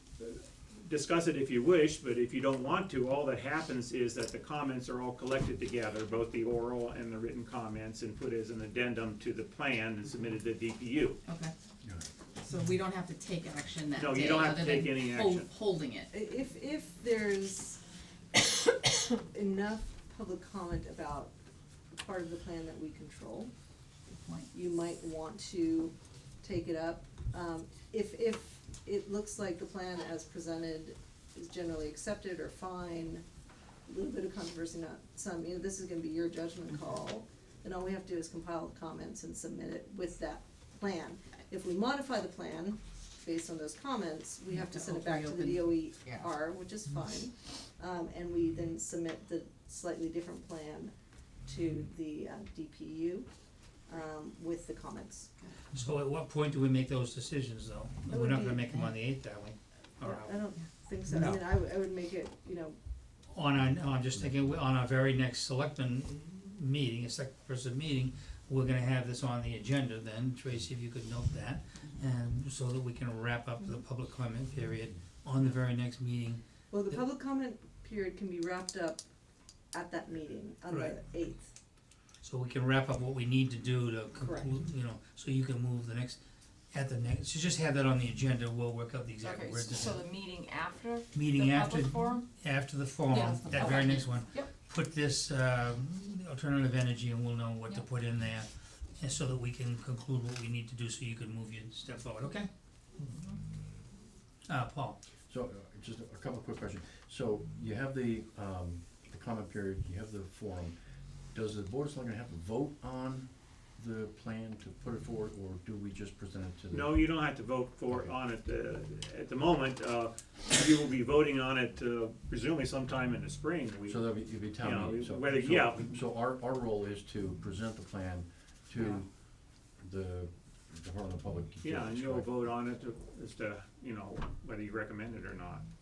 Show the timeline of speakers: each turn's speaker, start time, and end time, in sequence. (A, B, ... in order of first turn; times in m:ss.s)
0:00.2-0:11.2 A
0:11.3-0:11.5 B
0:11.8-0:12.1 C
0:12.4-0:16.1 B
0:14.0-0:15.5 A
0:16.1-0:17.8 D
0:18.4-0:21.3 D
0:21.9-0:23.5 D
0:24.1-0:24.5 B
0:24.5-0:33.2 D
0:33.9-0:50.9 D
0:44.5-0:45.7 B
0:51.5-0:53.3 D
0:53.9-0:55.3 D
0:55.7-1:00.3 E
0:58.1-0:58.8 D
1:00.0-1:02.8 D
1:01.1-1:01.4 E
1:03.3-1:17.0 E
1:04.1-1:04.4 C
1:16.7-1:19.1 D
1:19.7-1:21.6 D
1:20.7-1:21.0 E
1:22.2-1:26.2 E
1:24.2-1:24.6 D
1:26.7-1:30.1 E
1:29.3-1:32.2 F
1:31.1-1:42.5 E
1:33.2-1:34.2 F
1:44.5-1:45.0 E
1:45.3-1:50.8 C
1:51.3-1:57.0 C
1:56.7-2:06.0 A
1:57.9-1:58.1 C
2:03.9-2:12.3 C
2:11.6-2:15.6 A